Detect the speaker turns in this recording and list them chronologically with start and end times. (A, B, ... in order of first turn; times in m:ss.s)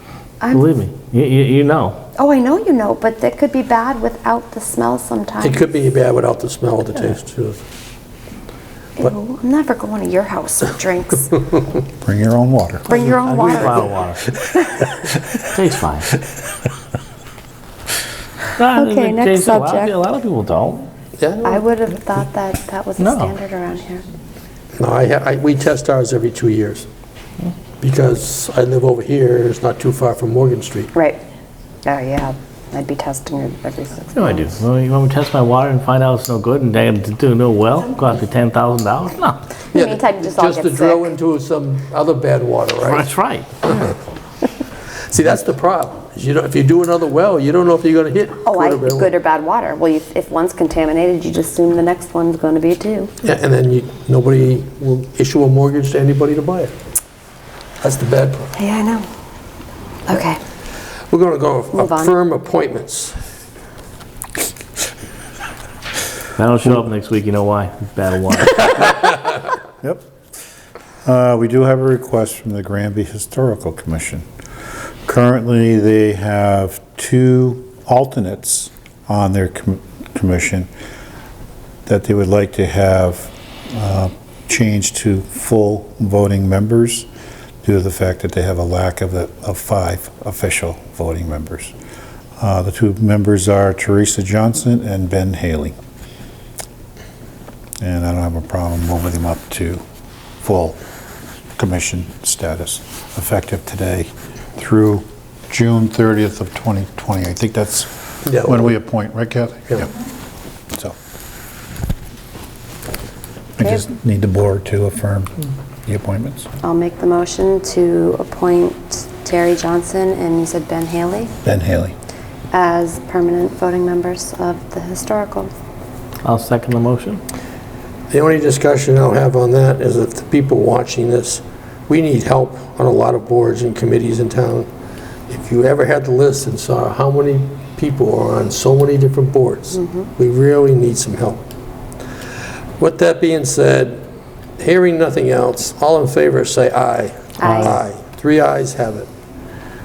0:00.4-0:00.7 A
0:00.5-0:02.0 B
0:02.2-0:05.6 A
0:05.4-0:07.6 C
0:09.0-0:11.4 A
0:12.0-0:12.8 D
0:12.9-0:14.8 A
0:12.9-0:14.4 B
0:15.4-0:16.2 B
0:18.6-0:20.9 B
0:18.7-0:19.9 A
0:21.2-0:21.6 C
0:21.4-0:24.0 A
0:23.0-0:23.3 B
0:24.8-0:26.9 C
0:27.8-0:30.9 C
0:30.9-0:31.2 A
0:31.8-0:34.6 A
0:34.1-0:39.5 B
0:39.7-0:43.1 C
0:39.7-0:41.1 A
0:42.8-0:43.9 B
0:43.6-0:43.9 C
0:45.1-0:49.1 C
0:48.4-0:53.1 A
0:53.2-0:56.7 C
0:57.8-0:58.5 C
0:58.6-0:59.1 A
1:00.1-1:00.4 A
1:01.1-1:03.2 C
1:01.7-1:02.1 A
1:06.3-1:09.0 B
1:11.0-1:14.2 D
1:15.0-1:20.7 D
1:21.8-1:27.1 D
1:27.6-1:31.7 D
1:32.4-1:35.8 D
1:37.8-1:39.8 D
1:40.4-1:40.8 D
1:41.6-1:49.9 D
1:48.2-1:48.7 C
1:53.6-1:56.5 D
1:56.6-2:01.3 A
2:01.4-2:01.9 D
2:02.5-2:05.5 A
2:06.2-2:07.2 B
2:08.1-2:14.7 C
2:15.3-2:21.4 C
2:22.8-2:24.0 C
2:24.6-2:29.1 C
2:27.4-2:27.7 A